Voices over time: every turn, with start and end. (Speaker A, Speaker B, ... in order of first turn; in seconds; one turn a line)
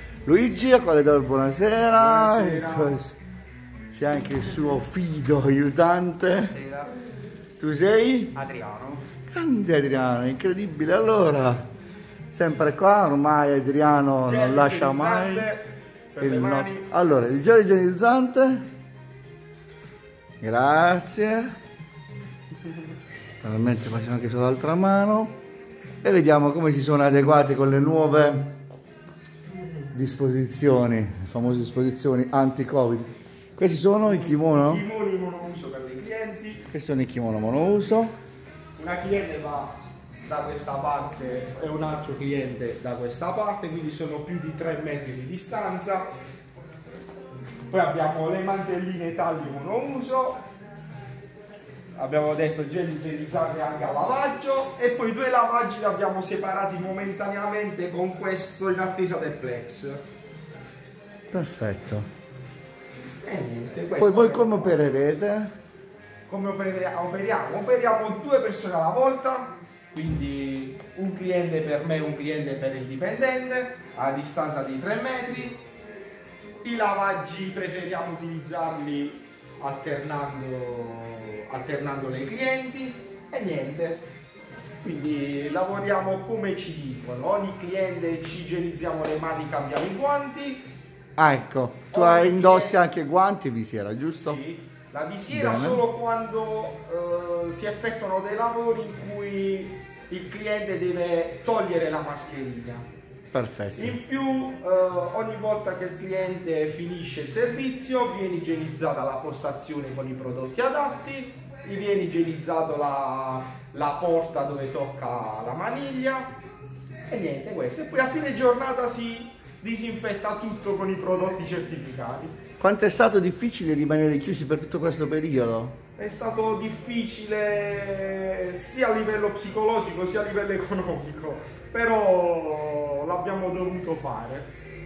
Speaker A: 0.2-3.2
Speaker B: 1.9-3.0
Speaker A: 3.9-6.5
Speaker B: 6.4-6.9
Speaker A: 7.6-8.3
Speaker B: 8.3-9.1
Speaker A: 9.3-11.7
Speaker A: 12.3-15.5
Speaker B: 14.2-16.9
Speaker A: 16.2-18.6
Speaker A: 20.4-21.5
Speaker A: 23.4-25.3
Speaker A: 26.0-28.5
Speaker A: 29.9-34.8
Speaker B: 34.0-36.6
Speaker A: 36.7-38.1
Speaker B: 38.8-39.7
Speaker B: 40.2-46.1
Speaker B: 47.7-50.4
Speaker B: 52.0-60.0
Speaker A: 61.3-62.1
Speaker B: 63.2-65.0
Speaker A: 64.0-65.5
Speaker B: 66.3-75.6
Speaker B: 76.6-84.0
Speaker B: 84.8-90.7
Speaker A: 91.2-94.4
Speaker B: 91.9-92.9
Speaker B: 94.2-102.8
Speaker A: 95.3-95.8
Speaker A: 103.3-104.0
Speaker B: 103.8-116.3
Speaker B: 117.1-122.3
Speaker A: 122.6-125.8
Speaker B: 126.0-134.5